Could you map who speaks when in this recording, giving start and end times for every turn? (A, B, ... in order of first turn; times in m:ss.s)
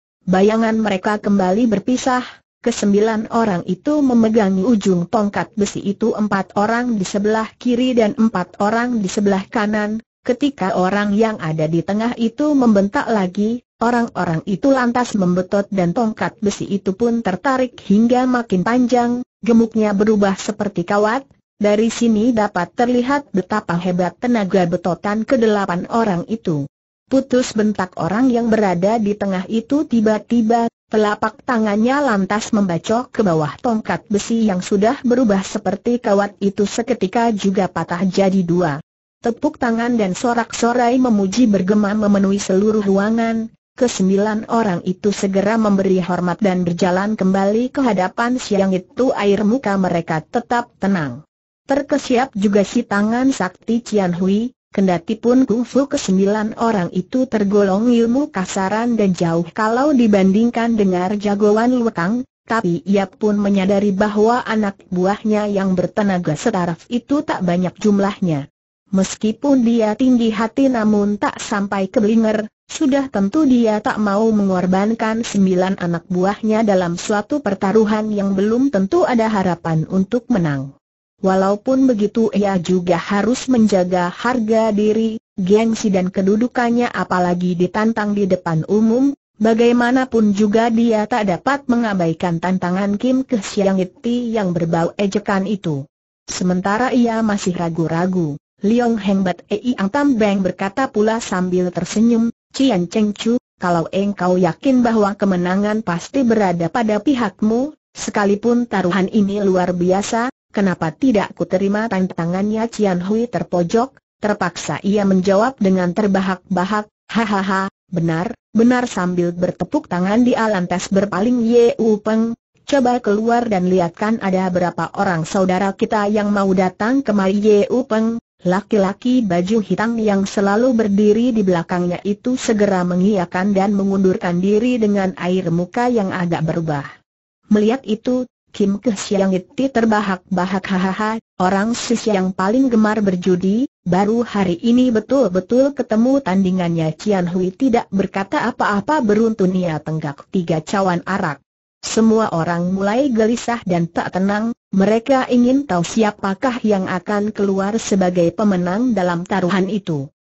0:00.3-0:51.2 A
0:51.7-1:08.4 A
1:09.0-1:20.7 A
1:21.2-2:16.9 A
2:17.5-2:40.0 A